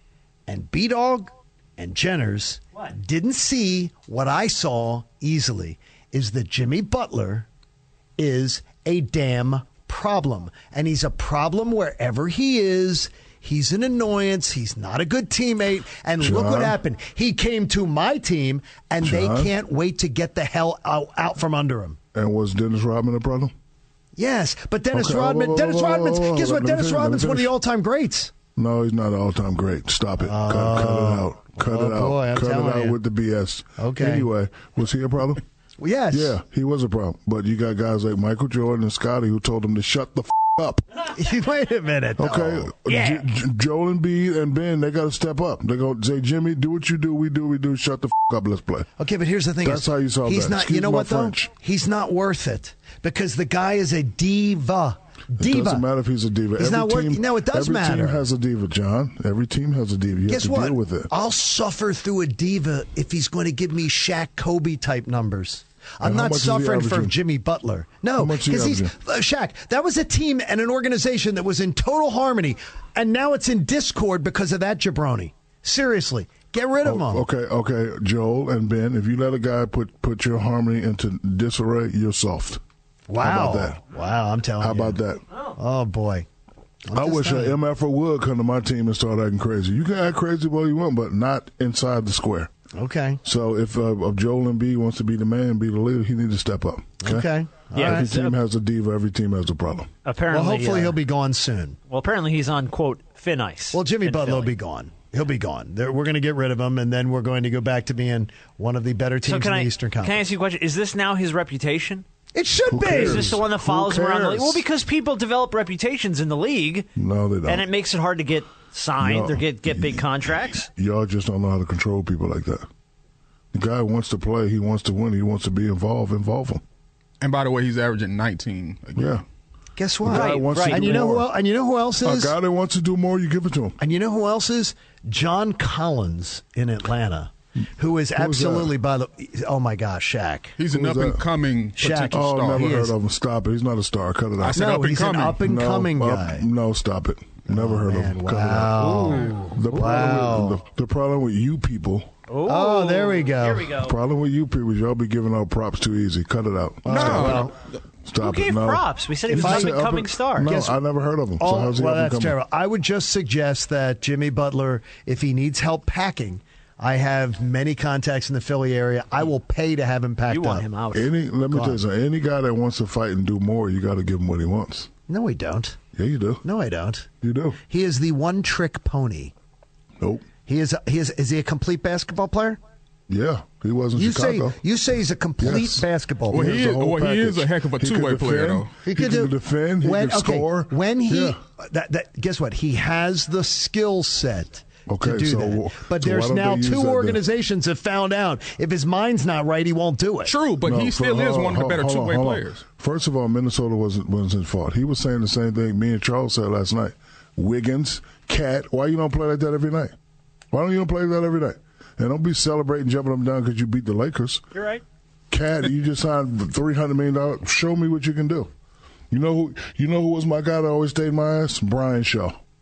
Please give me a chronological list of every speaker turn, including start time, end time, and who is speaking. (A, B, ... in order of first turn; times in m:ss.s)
0:00.5-0:07.5 A
0:08.2-0:22.0 A
0:16.2-0:16.8 B
0:19.0-0:19.5 B
0:22.1-0:23.5 B
0:24.2-0:28.3 A
0:24.9-0:27.6 B
0:28.6-0:35.4 B
0:30.2-0:33.0 A
0:33.8-0:34.3 A
0:35.8-0:36.4 A
0:36.1-0:40.8 B
0:41.1-0:42.7 A
0:42.2-0:48.9 B
0:42.9-0:43.2 C
0:49.0-0:55.8 A
0:49.6-0:51.5 B
0:55.4-1:01.1 B
0:56.6-0:58.2 A
1:00.3-1:17.2 A
1:06.0-1:07.2 B
1:08.2-1:09.0 B
1:16.8-1:22.6 B
1:23.1-1:25.0 A
1:23.2-1:23.8 B
1:24.6-1:25.2 B
1:25.6-1:26.3 A
1:26.9-1:27.6 A
1:26.9-1:32.5 B
1:32.7-1:33.2 A
1:33.2-1:39.9 B
1:37.0-1:38.1 A
1:37.7-1:38.4 C
1:40.0-1:41.0 C
1:40.3-1:41.8 A
1:41.9-1:44.5 C
1:43.7-1:50.3 A
1:49.2-1:52.0 C
1:52.3-1:53.4 A
1:52.7-1:54.6 B
1:52.8-1:56.9 C
1:57.0-1:57.7 B
1:57.5-2:00.7 C
1:59.0-2:02.7 B
2:03.5-2:06.6 B
2:07.2-2:09.2 D
2:09.0-2:09.2 B
2:09.8-2:12.4 A
2:10.0-2:11.3 B
2:10.1-2:10.9 C
2:12.0-2:13.8 B
2:13.8-2:20.6 A
2:18.2-2:18.8 B
2:20.6-2:22.8 D
2:20.7-2:21.2 B
2:21.8-2:22.9 A
2:22.1-2:24.7 B
2:24.4-2:25.4 D
2:24.5-2:26.4 A
2:25.4-2:32.1 B
2:27.5-2:30.6 A
2:32.3-2:34.0 C
2:32.5-2:33.7 A
2:33.8-2:37.5 B
2:36.9-2:37.5 A
2:36.9-2:37.5 D
2:38.0-2:42.4 B
2:38.2-2:40.5 C
2:39.3-2:39.8 A
2:40.4-2:40.8 A
2:41.4-2:50.7 A
2:50.3-2:51.1 C
2:50.9-2:54.9 B
2:51.5-2:51.8 A
2:55.1-2:55.8 A
2:55.9-2:56.4 B
2:56.4-2:57.1 A
2:57.2-2:57.6 B
2:57.7-2:59.3 A
3:00.0-3:00.3 B
3:00.4-3:02.6 A
3:03.1-3:04.6 B
3:04.0-3:06.5 A
3:05.4-3:11.4 B
3:06.3-3:08.7 D
3:08.9-3:20.3 A
3:14.9-3:17.2 B
3:20.3-3:22.6 D
3:20.6-3:29.9 B
3:30.5-3:34.4 B
3:34.5-3:34.8 C
3:35.3-3:38.5 B
3:39.1-3:42.4 B